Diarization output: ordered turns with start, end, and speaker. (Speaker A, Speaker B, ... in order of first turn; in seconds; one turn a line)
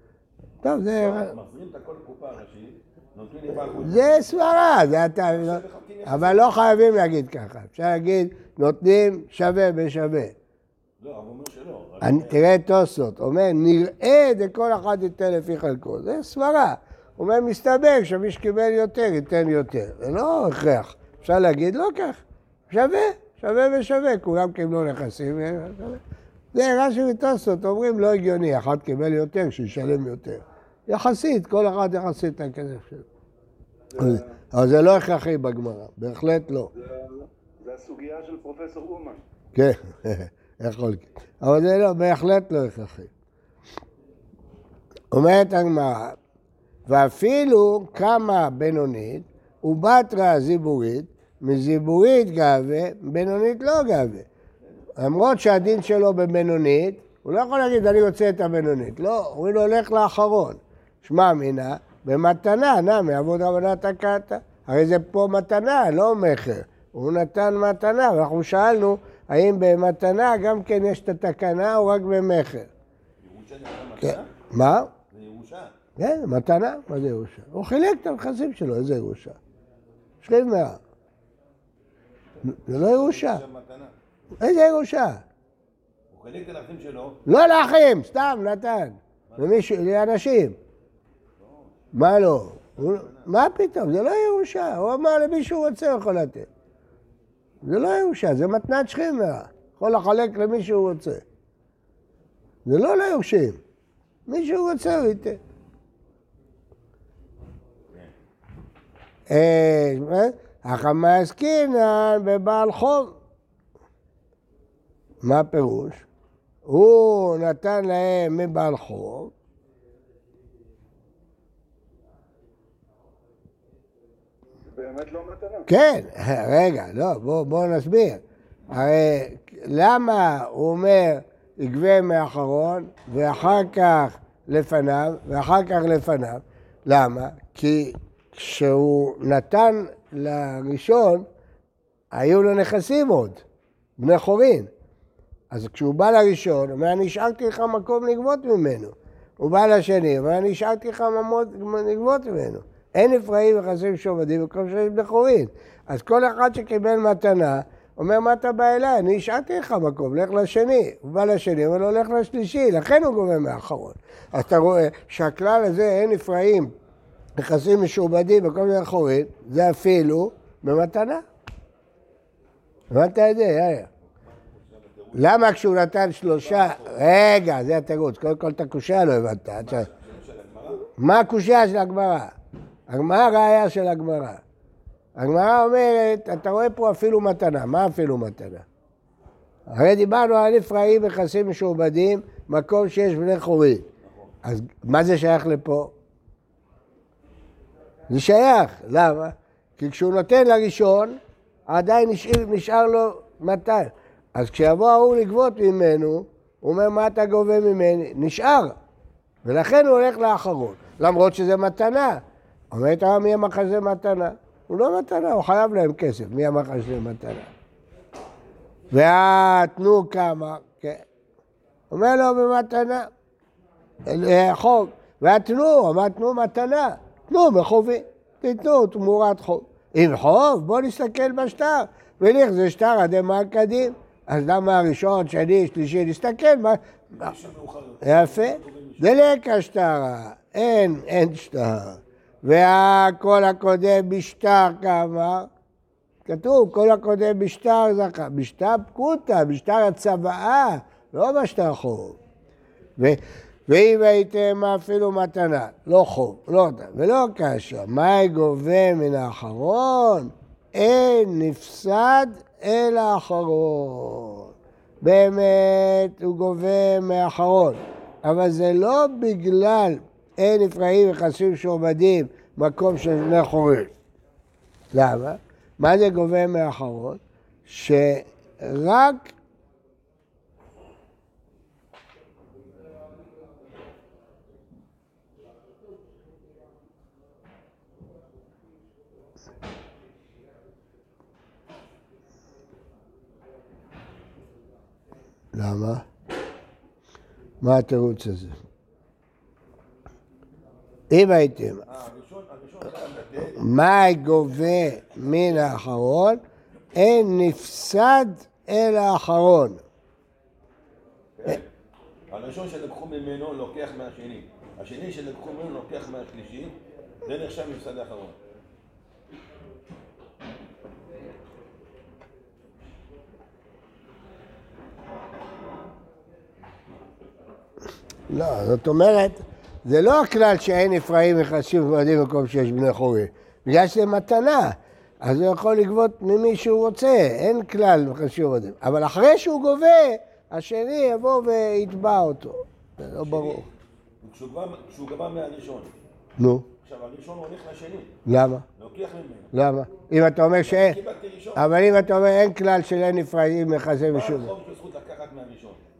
Speaker A: 0.6-1.3
Speaker B: 1.0-4.5
Speaker A: 3.5-10.3
Speaker B: 5.3-7.2
Speaker B: 11.0-12.5
Speaker A: 12.0-26.0
Speaker A: 26.5-33.0
Speaker C: 33.9-34.4
Speaker A: 34.0-36.7
Speaker C: 36.7-39.2
Speaker A: 39.5-43.1
Speaker A: 45.1-46.1
Speaker A: 46.9-54.3
Speaker B: 54.6-54.9
Speaker A: 55.0-72.7
Speaker B: 73.2-74.4
Speaker A: 74.0-74.9
Speaker B: 74.9-75.7
Speaker A: 76.0-79.4
Speaker A: 80.2-80.8
Speaker A: 82.4-83.4
Speaker B: 82.4-83.9
Speaker A: 84.4-85.2
Speaker B: 86.1-87.2
Speaker A: 87.2-90.5
Speaker B: 89.3-89.7
Speaker B: 91.4-91.8
Speaker A: 91.9-96.5
Speaker B: 92.8-93.3
Speaker A: 97.6-101.2
Speaker A: 102.7-103.6
Speaker A: 104.3-105.4
Speaker A: 109.3-113.1
Speaker A: 115.2-116.0
Speaker A: 116.7-119.3
Speaker C: 124.7-125.7
Speaker A: 125.7-141.2
Speaker A: 142.1-143.4
Speaker A: 144.0-144.7
Speaker A: 145.5-166.7
Speaker A: 167.4-171.2
Speaker A: 172.9-173.9
Speaker B: 174.1-175.6
Speaker A: 175.1-179.9
Speaker B: 176.2-177.2
Speaker B: 179.6-180.8
Speaker A: 181.0-182.3
Speaker A: 182.9-184.4
Speaker A: 185.2-188.6
Speaker A: 189.7-193.8
Speaker B: 194.0-194.3
Speaker A: 194.4-195.9
Speaker A: 198.1-208.7
Speaker A: 209.4-217.5
Speaker A: 218.9-221.0
Speaker A: 221.9-223.1
Speaker A: 224.1-237.3
Speaker B: 237.2-239.2
Speaker A: 238.0-245.5
Speaker A: 246.2-252.2
Speaker A: 253.0-264.5
Speaker A: 265.0-273.9
Speaker A: 274.9-279.3
Speaker A: 295.5-296.0
Speaker A: 297.6-298.5
Speaker A: 301.1-301.9
Speaker B: 301.9-303.6
Speaker A: 303.6-306.4
Speaker B: 304.7-305.8
Speaker A: 306.9-309.8
Speaker B: 311.4-311.6
Speaker B: 312.3-318.4
Speaker A: 328.3-343.6
Speaker B: 343.2-343.7
Speaker B: 344.2-346.0
Speaker A: 346.4-346.7
Speaker B: 346.8-348.2
Speaker A: 348.2-348.6
Speaker B: 348.8-349.5
Speaker A: 349.5-351.0
Speaker B: 350.6-351.7
Speaker A: 351.5-354.5
Speaker B: 354.1-355.8